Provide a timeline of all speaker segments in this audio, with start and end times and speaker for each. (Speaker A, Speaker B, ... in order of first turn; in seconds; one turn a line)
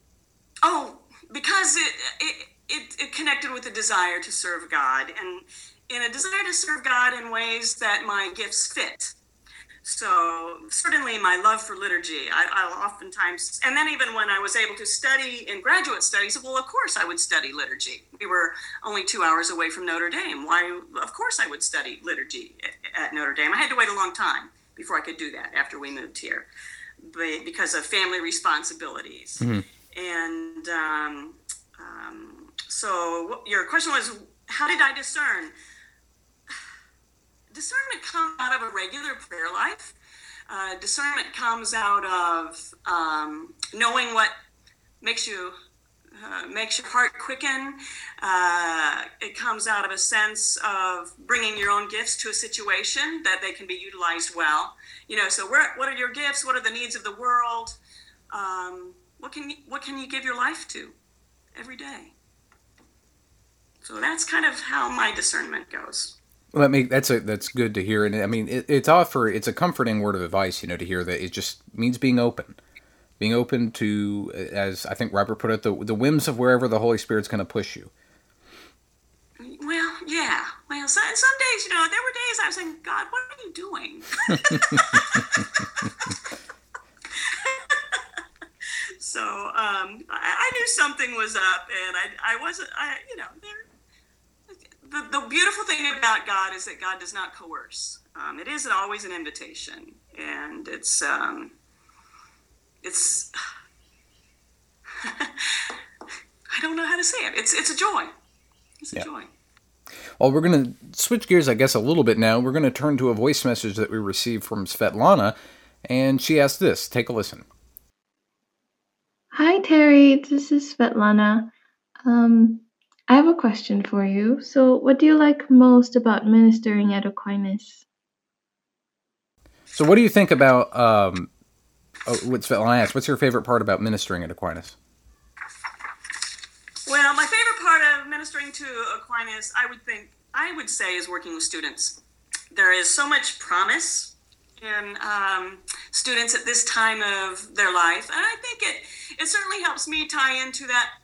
Speaker A: 0.6-9.1
Speaker A: 9.8-26.5
Speaker A: 27.0-35.5
Speaker A: 37.5-40.0
Speaker A: 40.5-44.3
Speaker A: 45.0-45.5
Speaker A: 46.1-57.8
Speaker A: 58.3-61.0
Speaker A: 61.5-62.1
Speaker A: 63.8-66.2
Speaker B: 66.5-72.6
Speaker B: 73.2-77.9
Speaker A: 79.4-86.1
Speaker A: 87.1-88.0
Speaker A: 89.0-93.7
Speaker A: 94.5-101.5
Speaker A: 102.8-103.3
Speaker A: 105.0-105.7
Speaker A: 106.5-108.1
Speaker A: 108.8-109.3
Speaker B: 110.2-117.5
Speaker C: 119.3-121.5
Speaker C: 122.0-127.8
Speaker B: 129.7-131.3
Speaker B: 132.1-134.8
Speaker A: 136.9-142.0
Speaker A: 142.5-150.9